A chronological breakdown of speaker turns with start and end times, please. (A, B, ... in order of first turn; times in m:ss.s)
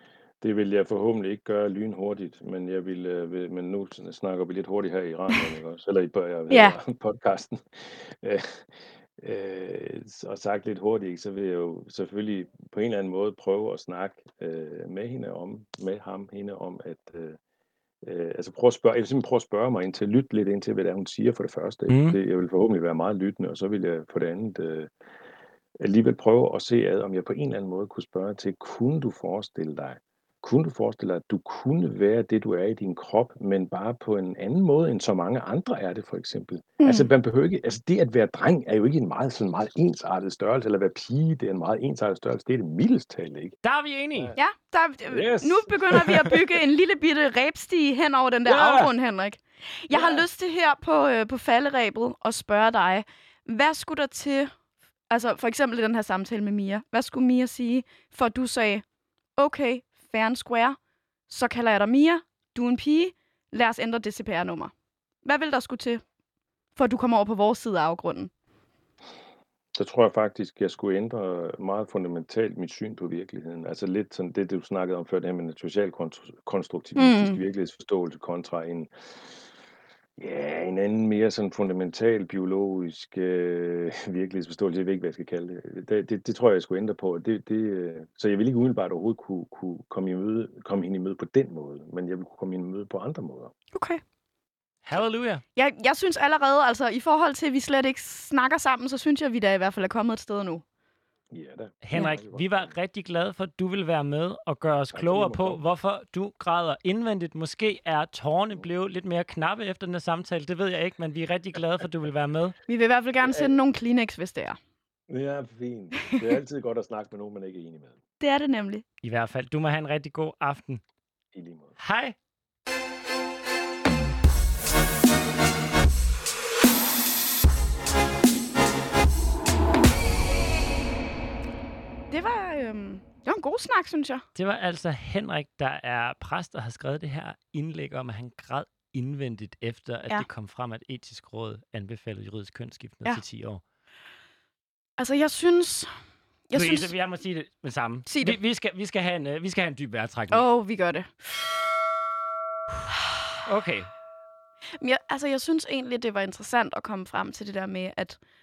0:00.4-0:17.4 A
0:06.5-0:06.8 B
0:18.0-0:24.9 A
0:21.9-0:22.2 C
0:25.8-0:43.6 A
0:36.8-0:37.1 B
0:43.6-0:44.3 C
0:44.4-0:54.5 B
0:45.1-0:46.5 A
0:48.4-0:48.9 A
0:49.9-0:50.2 A
0:55.1-0:58.8 B
0:59.4-1:04.7 B
1:05.2-1:06.0 B
1:06.8-1:08.3 B
1:09.7-1:19.1 A
1:17.0-1:17.4 B
1:20.2-1:33.5 A
1:33.7-1:34.0 B
1:34.8-1:35.4 C
1:35.5-1:40.6 B
1:41.3-1:42.7 A
1:41.8-1:52.6 C
1:44.9-1:45.6 A
1:52.7-1:54.6 B
1:53.2-1:53.5 A
1:55.1-1:57.9 A
1:58.2-1:58.8 B
1:59.0-2:00.8 C
2:01.3-2:01.7 A
2:01.8-2:02.2 C
2:12.1-2:14.2 B
2:14.3-2:23.6 C
2:25.0-2:25.9 B
2:26.5-2:26.9 B
2:26.5-2:30.4 C
2:28.1-2:28.4 B
2:30.3-2:31.3 B
2:32.9-2:33.2 B
2:33.4-2:33.9 C
2:34.8-2:38.2 B